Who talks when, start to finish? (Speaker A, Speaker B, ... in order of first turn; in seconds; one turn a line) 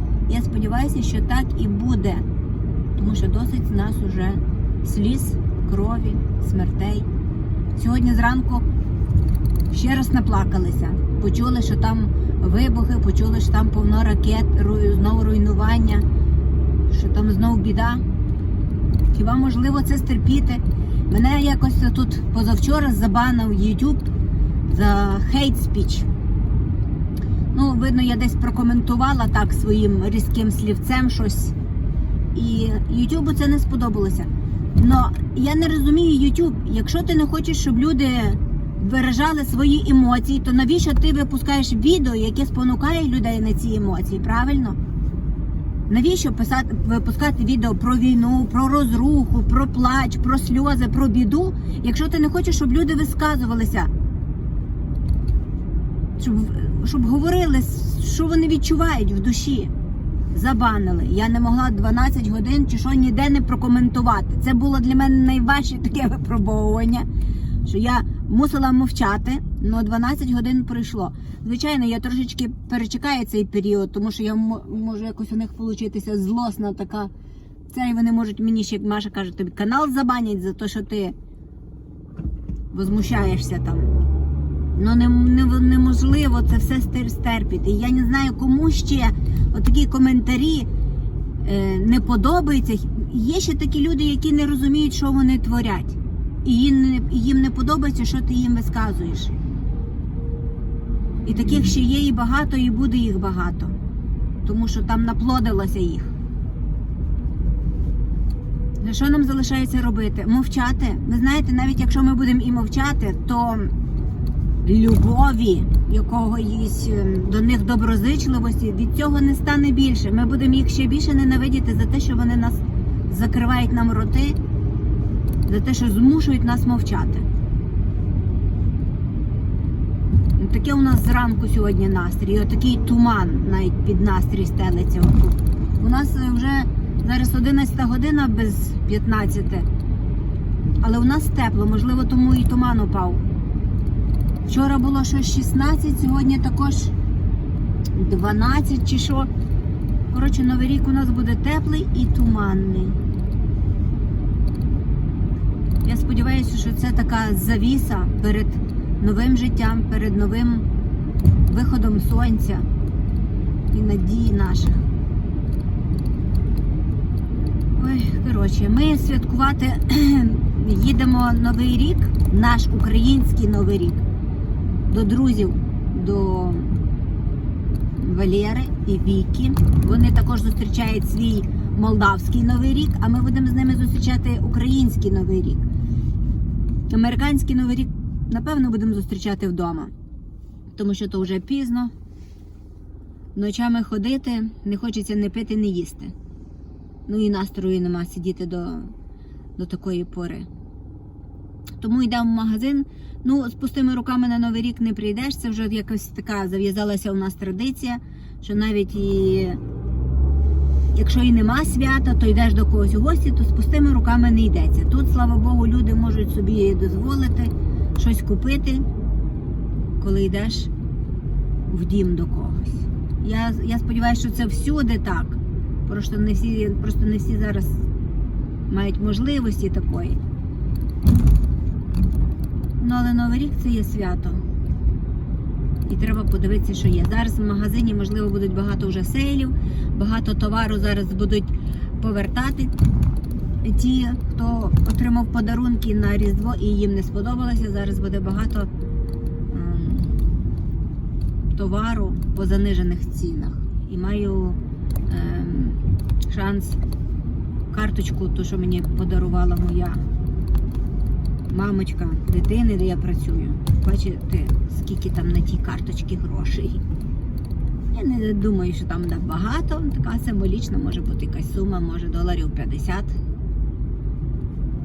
Speaker A: 0.3-2.3
Speaker A: 3.0-7.1
Speaker A: 7.8-8.7
Speaker A: 9.7-16.1
Speaker A: 16.9-18.0
Speaker A: 19.1-24.1
Speaker A: 24.7-26.1
Speaker A: 27.5-31.6
Speaker A: 32.3-44.8
Speaker A: 45.9-53.9
Speaker A: 56.2-59.7
Speaker A: 60.3-67.1
Speaker A: 67.7-77.1
Speaker A: 77.7-81.2
Speaker A: 82.7-83.9
Speaker A: 84.7-90.7
Speaker A: 91.4-99.3
Speaker A: 101.2-103.8
Speaker A: 104.4-106.2
Speaker A: 108.8-113.7
Speaker A: 114.6-124.4
Speaker A: 125.5-127.3
Speaker A: 130.4-139.7
Speaker A: 140.8-143.2
Speaker A: 144.5-146.9
Speaker A: 147.9-149.3
Speaker A: 150.1-153.0
Speaker A: 155.8-160.7
Speaker A: 161.4-162.7
Speaker A: 163.7-164.8
Speaker A: 167.8-174.0
Speaker A: 174.9-176.8
Speaker A: 178.0-185.7
Speaker A: 186.9-189.9
Speaker A: 190.8-191.9
Speaker A: 193.3-196.1
Speaker A: 197.1-198.9
Speaker A: 199.6-200.5
Speaker A: 201.8-209.6
Speaker A: 210.9-218.8
Speaker A: 220.0-220.7
Speaker A: 221.7-227.8
Speaker A: 228.7-230.2
Speaker A: 232.8-234.4
Speaker A: 235.9-242.8
Speaker A: 243.6-248.7
Speaker A: 249.5-250.2
Speaker A: 251.5-256.8
Speaker A: 257.7-260.1
Speaker A: 261.5-266.8
Speaker A: 267.9-273.2